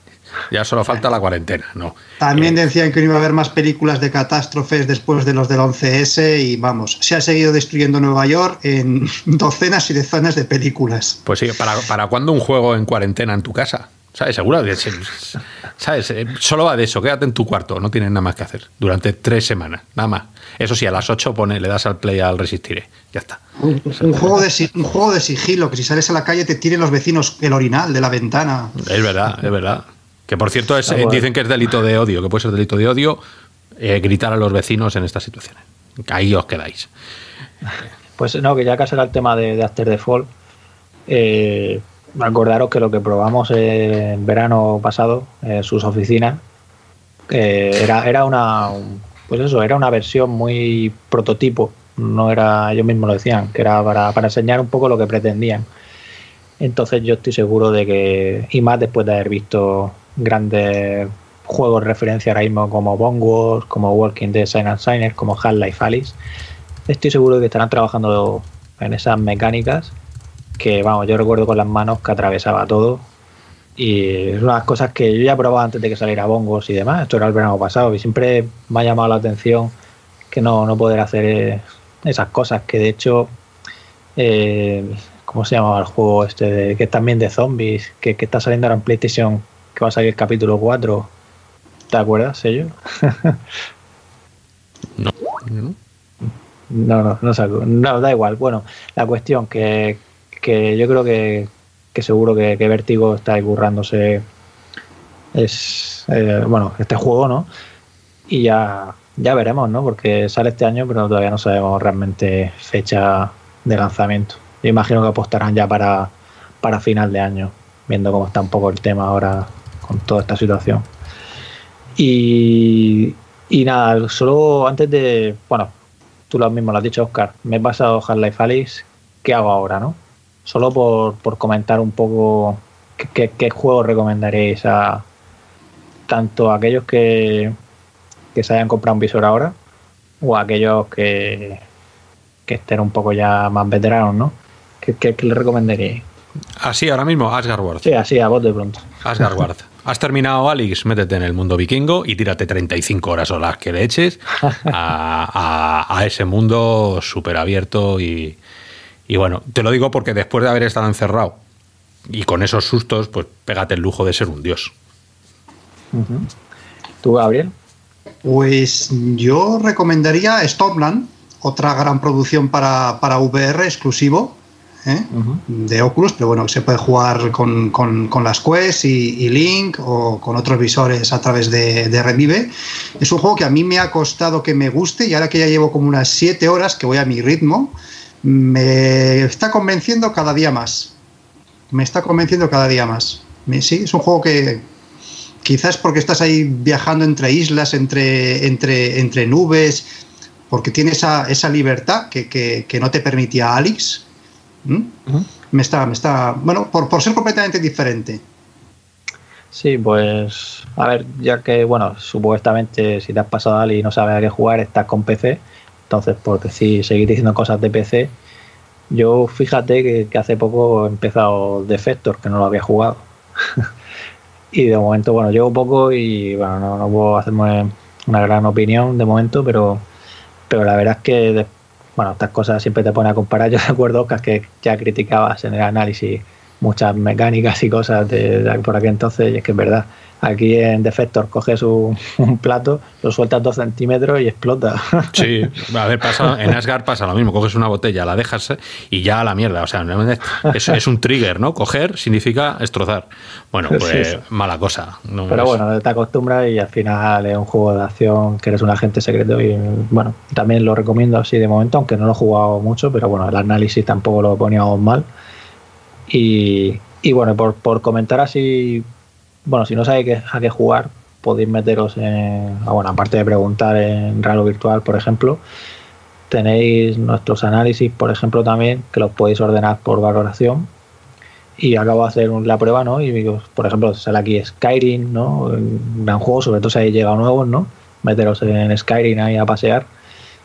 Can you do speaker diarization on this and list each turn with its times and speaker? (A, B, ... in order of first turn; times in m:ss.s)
0:00.5-0:02.6 A
0:02.2-0:11.2 B
0:11.2-0:23.4 A
0:23.6-0:28.8 B
0:28.8-0:33.2 A
0:30.9-0:31.2 C
0:33.8-0:36.9 A
0:38.2-0:40.3 C
0:41.1-0:46.4 C
0:47.3-0:55.7 C
0:56.6-1:06.2 C
1:06.9-1:09.9 C
1:10.6-1:13.0 C
1:13.8-1:19.7 C
1:20.3-1:23.3 C
1:24.2-1:31.1 C
1:31.9-1:33.4 C
1:35.0-1:35.8 A
1:36.7-1:44.2 C
1:45.3-1:47.5 C
1:48.3-2:00.8 C
2:02.0-2:05.7 C
2:06.3-2:15.0 C
2:16.1-2:17.5 C
2:18.3-2:19.5 C
2:20.2-2:21.6 C
2:22.5-2:26.0 C
2:26.6-2:27.9 A
2:27.8-2:29.0 C
2:29.0-2:38.4 A
2:39.1-2:41.4 A
2:42.1-2:44.7 A
2:45.9-2:46.3 C
2:47.0-2:47.5 C
2:48.2-3:10.9 B
2:55.1-2:55.4 C
3:11.7-3:14.7 B
3:15.4-3:19.9 B
3:20.5-3:24.0 B
3:24.6-3:25.0 B
3:25.5-3:28.2 B
3:29.5-3:38.1 C
3:38.9-3:43.6 C
3:44.5-3:49.8 C
3:50.5-4:05.4 C
4:05.1-4:15.6 A
4:13.7-4:14.2 C
4:15.3-4:25.1 C
4:26.1-4:28.8 C
4:29.4-4:35.4 C
4:36.3-4:40.7 C
4:41.6-4:49.9 C